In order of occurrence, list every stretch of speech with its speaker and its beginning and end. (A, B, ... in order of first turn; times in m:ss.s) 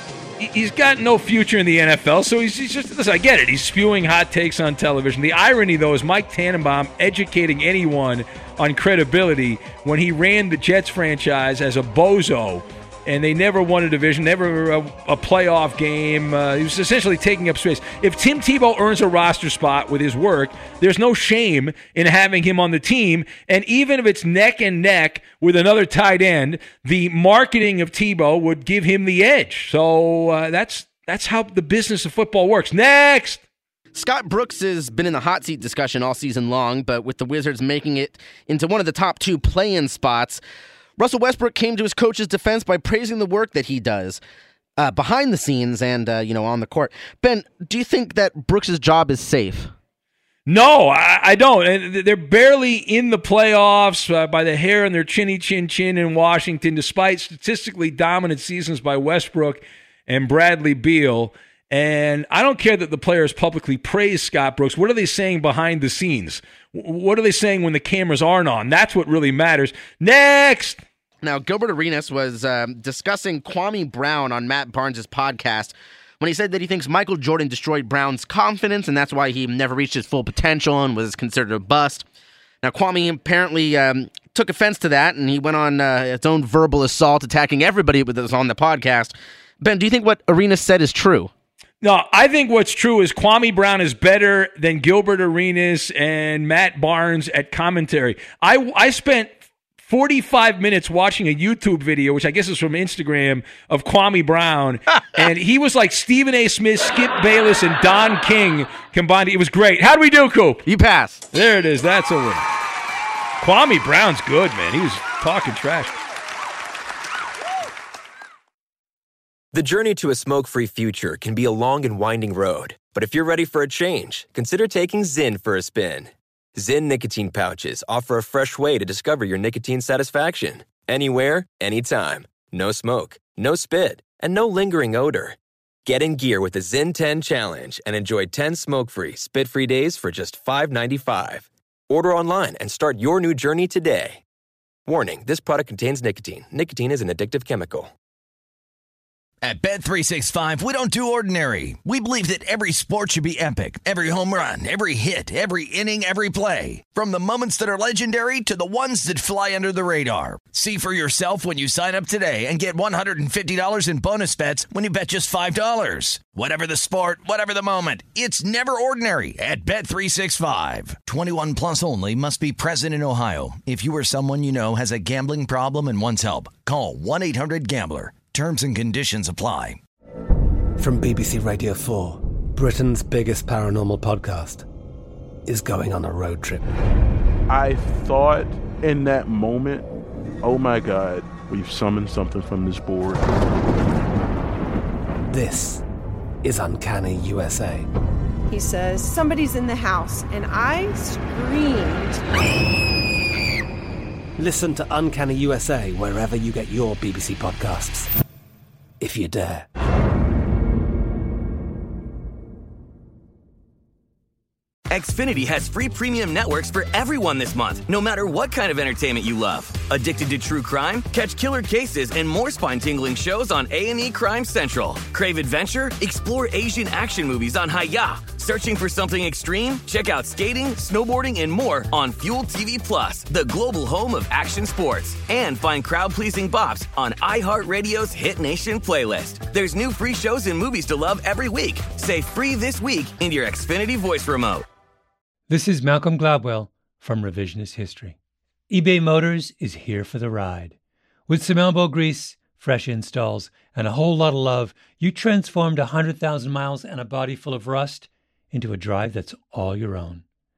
0:00.4-0:33.4 A
0:33.9-0:40.4 B
0:41.0-0:44.2 B
0:44.8-0:49.7 B
0:50.5-1:10.8 A
1:11.2-1:22.0 B
1:22.6-1:31.3 B
1:31.8-1:50.6 A
1:50.6-1:51.2 B
1:51.3-1:52.5 A
1:53.4-1:55.9 A
1:59.5-2:24.2 C
2:24.9-2:27.9 C
2:29.4-2:59.8 D
3:00.8-3:04.6 E
3:05.5-3:06.7 E
3:07.5-3:09.8 F
3:10.4-3:13.3 F
3:15.3-3:15.8 E
3:16.4-3:17.9 E
3:18.5-3:22.2 G
3:24.4-3:28.1 E
3:29.0-3:29.7 E
3:34.9-4:04.6 H
4:05.5-4:08.2 I
4:08.7-4:10.8 I
4:11.3-4:20.2 I